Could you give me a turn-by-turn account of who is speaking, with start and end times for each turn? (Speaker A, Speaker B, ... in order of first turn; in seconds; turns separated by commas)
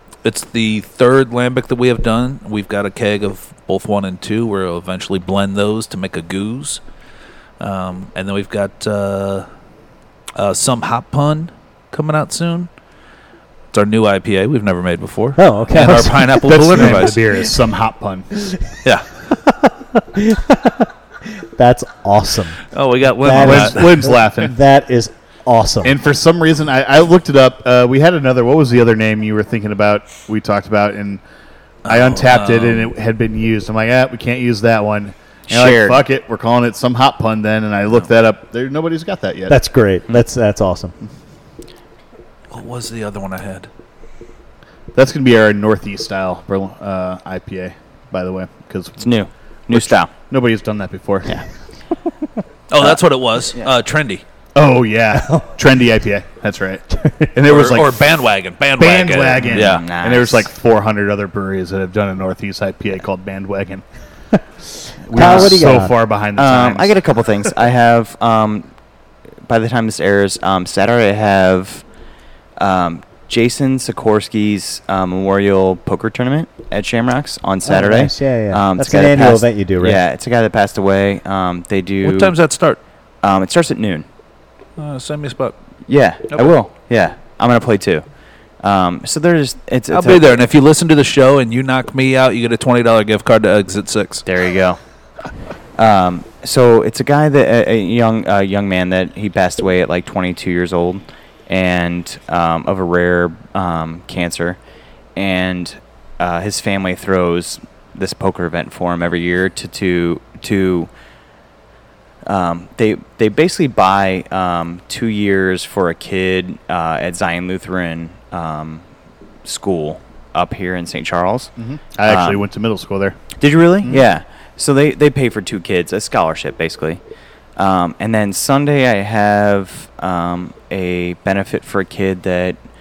Speaker A: 0.2-6.8, Speaker A: 7.6-9.5, Speaker A: 10.3-12.7, Speaker A: 13.7-17.4, Speaker B: 15.3-16.4, Speaker C: 16.4-18.3, Speaker B: 19.3-22.6, Speaker A: 22.7-24.0, Speaker B: 23.2-26.0, Speaker C: 23.4-24.5, Speaker C: 25.8-31.2, Speaker A: 31.8-32.9, Speaker C: 31.9-39.6, Speaker D: 35.5-36.0, Speaker B: 39.5-40.9, Speaker A: 42.5-43.7, Speaker C: 44.9-49.1, Speaker D: 49.0-50.1, Speaker C: 49.7-51.4, Speaker A: 52.7-54.2, Speaker C: 54.5-58.0, Speaker B: 56.9-57.3, Speaker A: 57.5-59.8, Speaker C: 58.8-63.8, Speaker D: 59.5-60.5, Speaker C: 65.0-67.0, Speaker B: 65.1-66.0, Speaker D: 65.1-65.6, Speaker D: 66.3-68.7, Speaker D: 69.5-71.8, Speaker D: 72.6-82.3, Speaker B: 77.6-80.0, Speaker A: 82.0-82.8, Speaker D: 83.2-84.0, Speaker A: 84.8-85.5, Speaker D: 85.9-88.0, Speaker D: 88.6-90.4, Speaker A: 89.9-94.2, Speaker D: 94.2-94.8, Speaker D: 95.8-104.6, Speaker D: 105.2-110.9, Speaker D: 112.2-118.8, Speaker D: 119.4-121.5, Speaker C: 121.6-123.2, Speaker D: 122.0-122.4, Speaker D: 123.4-127.0, Speaker D: 127.6-132.6